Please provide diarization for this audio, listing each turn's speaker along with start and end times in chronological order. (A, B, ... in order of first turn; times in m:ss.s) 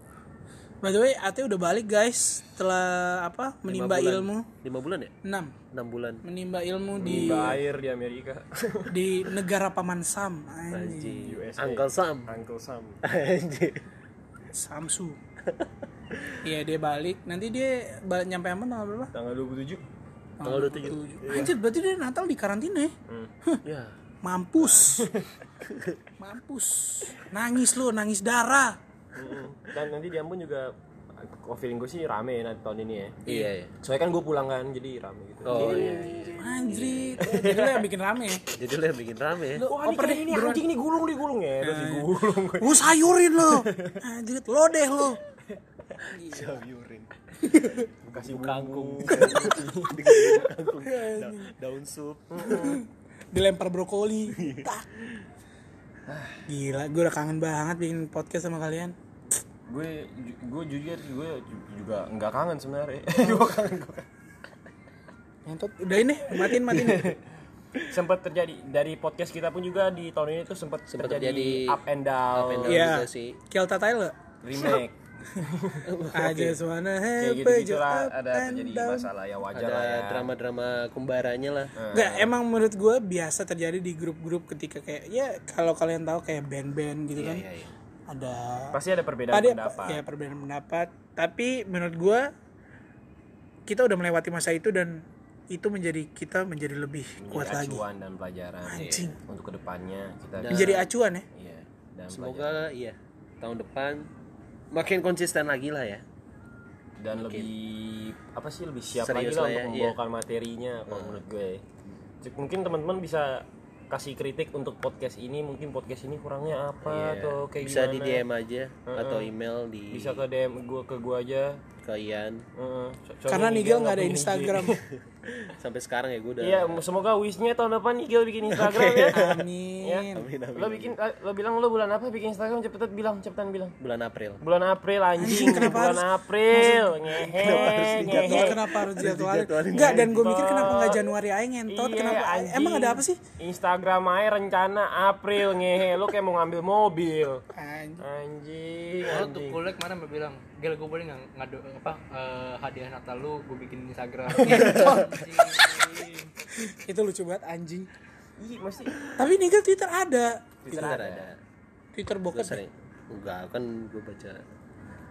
0:00.8-0:04.5 A
0:03.7-0:05.1 B
0:05.2-0:05.5 A
0:05.7-0:06.2 B
0:06.2-0:07.6 A
0:07.0-0:09.1 C
0:08.9-0:11.2 A
0:10.7-0:12.4 B
0:11.2-0:13.0 C
0:13.0-0:13.9 B
0:14.5-0:15.2 A
0:16.4-0:19.1 A
0:19.1-0:19.8 C
0:20.4-0:22.9 A
0:20.4-0:21.4 B
0:21.2-0:21.5 C
0:23.1-0:23.3 C
0:23.6-0:24.0 B
0:24.2-0:25.1 A
0:24.8-0:25.3 C
0:25.6-0:26.0 B
0:26.2-0:28.8 A
0:29.2-0:37.9 C
0:33.3-0:33.8 B
0:35.4-0:37.0 B
0:35.5-0:38.4 A
0:38.5-0:39.6 B
0:39.6-0:40.6 A
0:39.6-0:44.0 C
0:41.6-0:45.2 A
0:45.5-0:45.8 C
0:46.0-0:52.7 B
0:46.1-0:46.6 A
0:47.4-0:47.9 A
0:48.1-0:50.3 C
0:49.1-0:49.6 A
0:50.1-0:51.4 A
0:52.3-0:52.8 C
0:52.4-0:54.9 A
0:54.4-0:55.1 B
0:56.1-0:56.5 C
0:56.5-0:59.0 A
0:59.7-1:04.1 C
1:05.5-1:07.2 A
1:06.5-1:07.2 C
1:07.9-1:13.0 C
1:10.9-1:11.8 B
1:12.3-1:13.4 B
1:12.7-1:14.8 A
1:14.4-1:15.9 C
1:15.9-1:16.6 B
1:16.1-1:19.1 A
1:17.2-1:20.3 C
1:19.5-1:21.7 B
1:21.8-1:22.3 C
1:21.9-1:27.4 A
1:27.2-1:27.8 B
1:28.1-1:28.8 A
1:28.7-1:30.0 C
1:29.3-1:32.3 A
1:33.7-1:37.8 A
1:37.2-1:42.6 C
1:38.7-1:39.2 A
1:38.7-1:39.1 B
1:40.4-1:40.9 B
1:40.5-1:41.3 A
1:42.1-1:44.1 B
1:44.7-1:46.0 B
1:47.0-1:58.2 C
1:47.2-1:47.5 B
1:49.0-1:50.0 B
1:50.9-1:51.2 B
1:56.8-2:00.2 B
1:58.9-1:59.3 C
1:59.9-2:01.6 C
2:01.8-2:02.4 B
2:02.6-2:05.6 C
2:03.3-2:04.8 A
2:05.6-2:06.8 B
2:06.4-2:13.8 C
2:08.5-2:09.3 B
2:09.1-2:10.3 A
2:10.1-2:10.9 B
2:13.8-2:14.4 B
2:14.4-2:18.7 C
2:15.2-2:23.2 A
2:17.2-2:20.3 B
2:19.9-2:21.1 C
2:21.7-2:27.5 C
2:27.5-2:28.0 A
2:28.0-2:29.6 C
2:29.1-2:36.3 D
2:34.4-2:35.1 C
2:34.6-2:35.2 A
2:36.5-2:37.9 A
2:38.4-2:39.1 C
2:39.2-2:40.5 A
2:40.6-2:41.3 C
2:40.7-2:41.4 B
2:42.0-2:42.6 A
2:42.3-2:44.4 B